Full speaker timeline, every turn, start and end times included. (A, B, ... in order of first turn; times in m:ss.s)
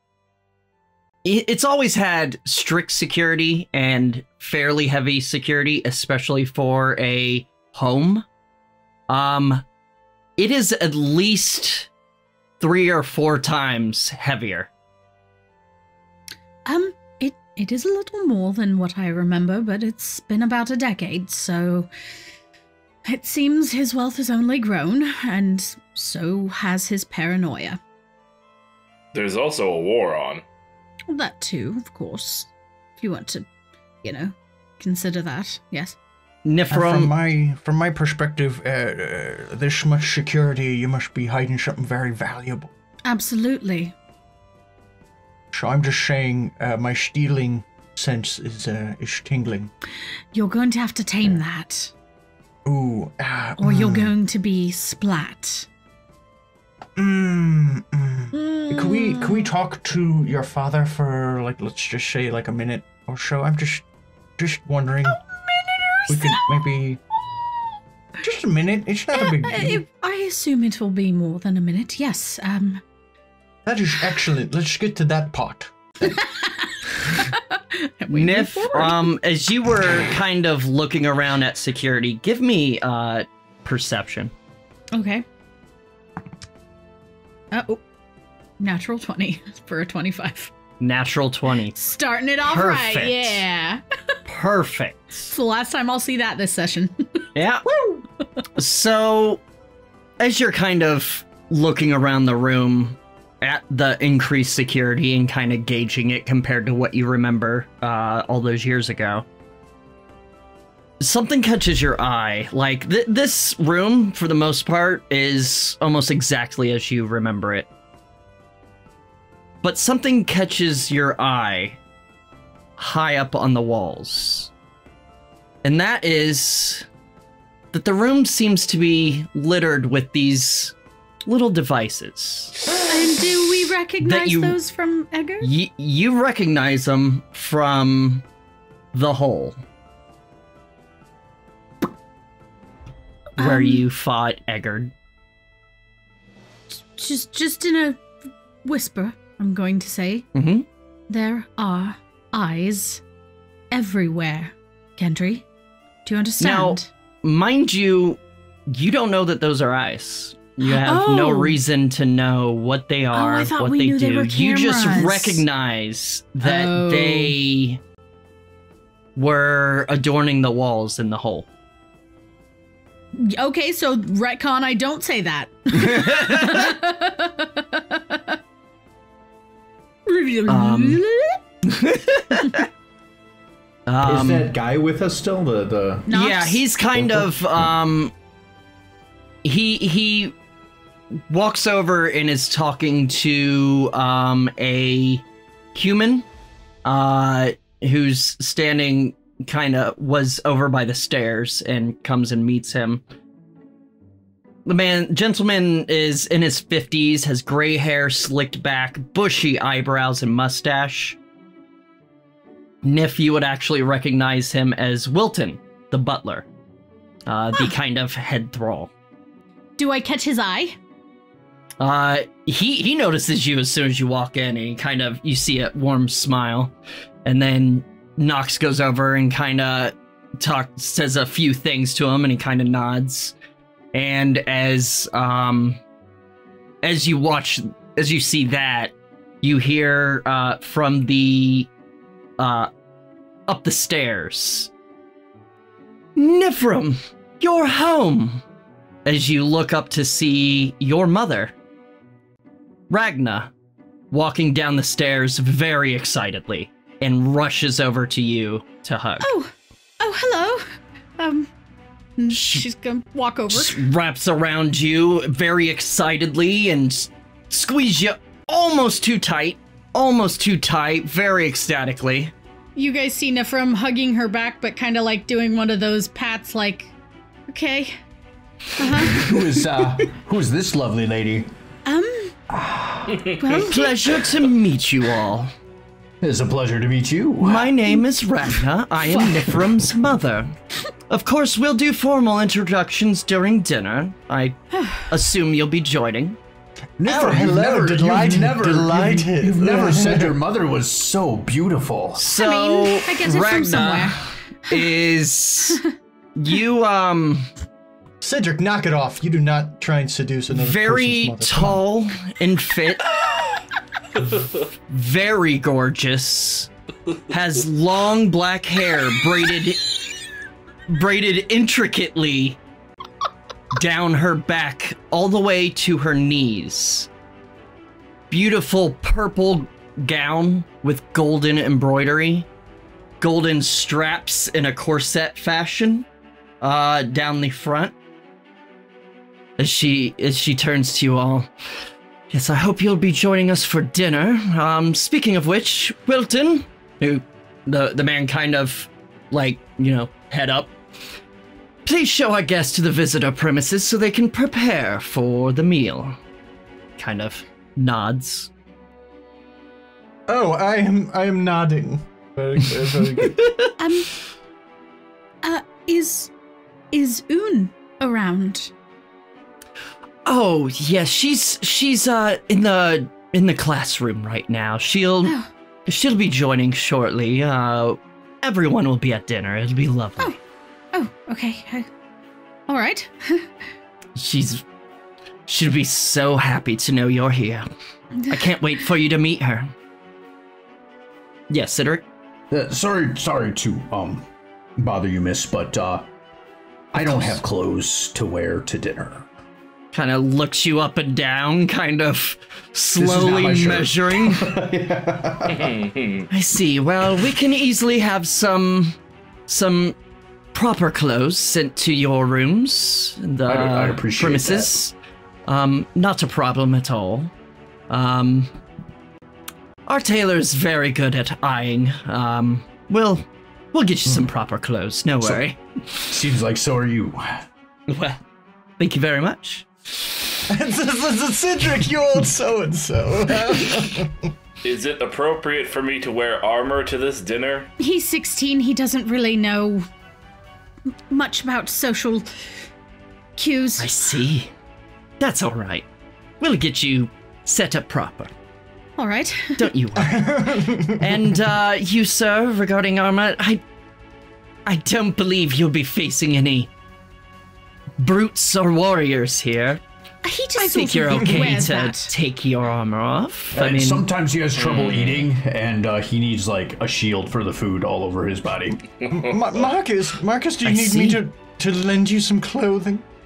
0:01.2-0:08.3 A
0:09.1-0:09.6 A
0:10.4-0:11.9 A
0:12.6-0:14.7 A
0:16.6-0:21.9 B
0:23.0-0:27.8 B
0:29.1-0:30.4 C
0:31.1-0:33.5 B
0:34.0-0:36.0 B
0:36.4-0:37.1 A
0:36.7-0:42.7 D
0:43.0-0:43.9 B
0:45.5-0:49.7 D
0:50.3-0:51.9 B
0:52.6-0:54.1 D
0:53.6-0:55.7 B
0:57.0-1:03.8 D
0:58.3-0:59.5 B
1:04.4-1:05.2 D
1:05.1-1:06.6 B
1:06.1-1:07.0 D
1:08.2-1:09.8 D
1:09.1-1:12.8 B
1:13.6-1:16.2 D
1:16.2-1:19.0 B
1:18.1-1:24.3 A
1:24.9-1:25.2 B
1:27.5-1:27.8 B
1:28.6-1:30.5 B
1:30.8-1:33.4 A
1:31.8-1:33.8 B
1:34.3-1:35.3 A
1:35.3-1:37.2 B
1:37.4-1:37.6 A
1:38.6-1:39.4 A
1:40.2-1:49.2 A
1:51.0-1:57.7 A
1:59.6-2:01.8 A
2:02.8-2:04.5 A
2:05.6-2:06.9 A
2:07.7-2:10.8 A
2:11.3-2:12.8 A
2:12.8-2:15.5 B
2:14.0-2:14.6 A
2:15.4-2:18.3 A
2:18.9-2:19.6 A
2:23.4-2:24.9 A
2:23.4-2:23.8 B
2:26.7-2:28.0 B
2:28.6-2:30.3 B
2:30.3-2:30.7 A
2:31.1-2:33.0 B
2:33.7-2:35.5 B
2:36.0-2:36.9 B
2:36.4-2:47.8 A
2:40.6-2:41.6 B
2:43.1-2:45.4 B
2:46.4-2:47.3 B
2:49.2-2:51.5 A
2:53.1-2:58.4 B
2:55.7-2:56.7 A
3:00.1-3:01.4 B
3:00.5-3:01.0 A
3:01.6-3:02.7 A
3:03.9-3:04.5 A
3:04.0-3:06.1 E
3:06.1-3:06.6 B
3:06.1-3:08.1 A
3:07.0-3:07.3 E
3:09.4-3:10.4 A
3:11.3-3:16.3 A
3:16.8-3:23.0 A
3:24.6-3:31.2 A
3:32.8-3:36.5 A
3:37.3-3:38.9 A
3:39.8-3:40.8 B
3:41.8-3:46.7 A
3:47.2-3:53.4 A
3:53.9-3:55.8 A
3:56.8-4:01.7 A
4:02.4-4:02.7 A
4:03.5-4:04.7 A
4:06.2-4:08.4 A
4:09.0-4:11.6 A
4:12.9-4:13.5 A
4:14.1-4:19.3 A
4:19.2-4:20.7 B
4:21.2-4:21.5 B
4:22.2-4:23.8 B
4:22.3-4:22.6 A
4:23.5-4:32.3 A
4:32.8-4:36.9 B
4:37.5-4:38.0 B
4:38.8-4:39.5 B
4:39.0-4:41.5 E
4:41.8-4:42.4 B
4:42.5-4:43.3 E
4:43.4-4:43.9 B
4:43.6-4:45.5 A
4:46.2-4:47.8 E
4:47.4-4:50.5 A
4:49.1-4:49.5 B
4:51.1-4:56.4 A
4:54.8-4:55.0 B
4:57.0-5:02.2 E
4:57.0-5:00.4 D
5:02.2-5:05.8 A
5:02.4-5:04.9 B
5:06.4-5:07.5 A
5:08.2-5:11.8 D
5:10.5-5:13.1 A
5:14.2-5:16.7 A
5:17.3-5:19.8 A
5:20.9-5:22.6 A
5:23.7-5:27.1 A
5:28.3-5:32.5 A
5:33.2-5:36.1 A
5:36.6-5:37.9 A
5:39.6-5:41.5 A
5:42.3-5:50.7 A
5:51.8-5:56.2 A
5:57.0-5:58.5 A
6:00.3-6:03.5 D
6:03.2-6:03.7 A
6:03.8-6:04.1 B
6:05.4-6:06.3 B
6:06.9-6:08.7 B
6:10.2-6:20.4 A
6:20.9-6:21.9 B
6:22.7-6:23.7 B
6:24.2-6:24.6 A
6:25.5-6:27.7 A
6:28.3-6:29.7 A
6:31.5-6:32.0 A
6:32.5-6:36.1 E
6:36.9-6:39.3 E
6:39.9-6:44.5 A
6:43.0-6:45.8 E
6:45.5-6:46.3 C
6:46.3-6:50.0 A
6:50.5-6:55.0 A
6:53.4-6:54.8 E
6:55.5-6:57.3 A
6:57.9-6:58.5 A
6:59.9-7:05.6 A
7:06.1-7:07.5 E
7:07.9-7:08.2 A
7:08.8-7:10.0 A
7:10.5-7:14.3 D
7:13.4-7:13.9 A
7:14.6-7:17.7 C
7:17.8-7:19.9 B
7:21.1-7:22.5 B
7:23.4-7:24.1 B
7:23.8-7:24.5 A
7:25.2-7:25.9 A
7:26.4-7:28.3 A
7:29.0-7:29.7 B
7:29.6-7:30.4 A
7:30.0-7:31.2 D
7:31.0-7:33.6 A
7:34.7-7:36.7 A
7:38.0-7:39.8 A
7:40.2-7:42.1 B
7:40.6-7:44.0 A
7:43.5-7:48.8 E
7:44.6-7:45.2 C
7:49.0-7:49.4 C
7:49.1-7:53.0 D
7:50.6-7:51.2 A